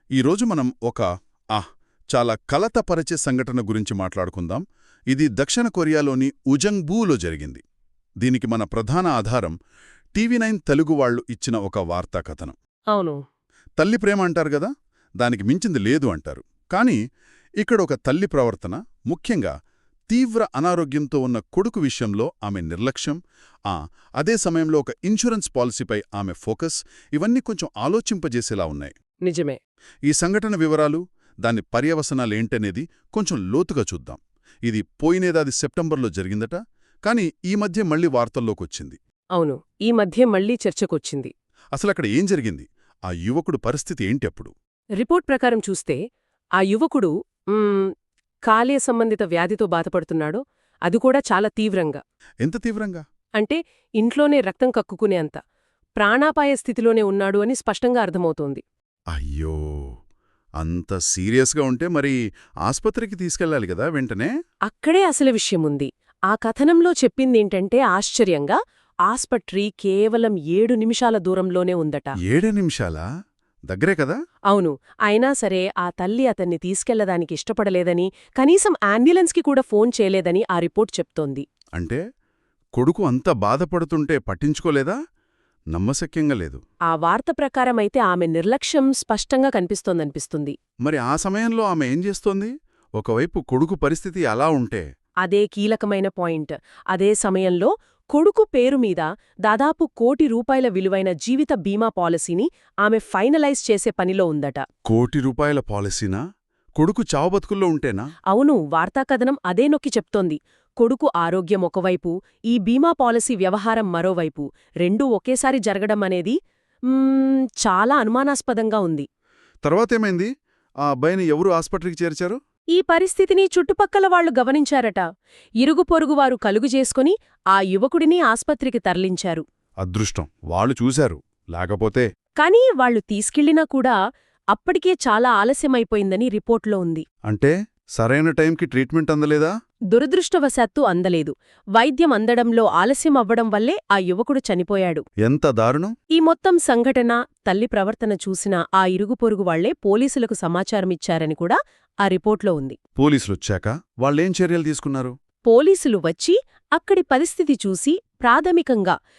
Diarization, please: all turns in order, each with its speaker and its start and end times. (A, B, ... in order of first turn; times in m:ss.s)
0:00.1-0:07.6 A
0:08.2-0:09.5 A
0:10.2-0:12.6 A
0:12.9-0:13.2 B
0:13.8-0:17.0 A
0:17.6-0:19.5 A
0:20.1-0:28.9 A
0:29.2-0:29.6 B
0:30.1-0:39.0 A
0:39.3-0:41.3 B
0:41.7-0:44.5 A
0:45.0-0:46.0 B
0:46.6-0:47.9 B
0:48.5-0:52.0 B
0:52.4-0:53.0 A
0:53.4-0:55.4 B
0:56.0-0:58.6 B
0:59.1-0:59.9 A
1:00.6-1:04.3 A
1:04.7-1:12.1 B
1:12.2-1:13.0 A
1:13.7-1:14.2 A
1:14.5-1:21.4 B
1:22.7-1:25.0 A
1:25.7-1:26.6 A
1:26.9-1:30.6 B
1:30.8-1:34.8 A
1:35.2-1:44.6 B
1:44.8-1:46.2 A
1:46.8-1:48.0 A
1:48.3-1:56.3 B
1:56.9-1:59.0 B
1:59.6-2:00.3 A
2:00.8-2:02.4 A
2:02.7-2:05.0 B
2:05.6-2:09.4 B
2:09.8-2:12.1 A
2:12.4-2:13.9 B
2:14.5-2:17.0 B
2:17.3-2:19.5 A
2:19.9-2:25.0 B
2:25.2-2:25.9 A
2:26.1-2:32.8 B
2:33.0-2:35.1 A
2:35.5-2:38.9 B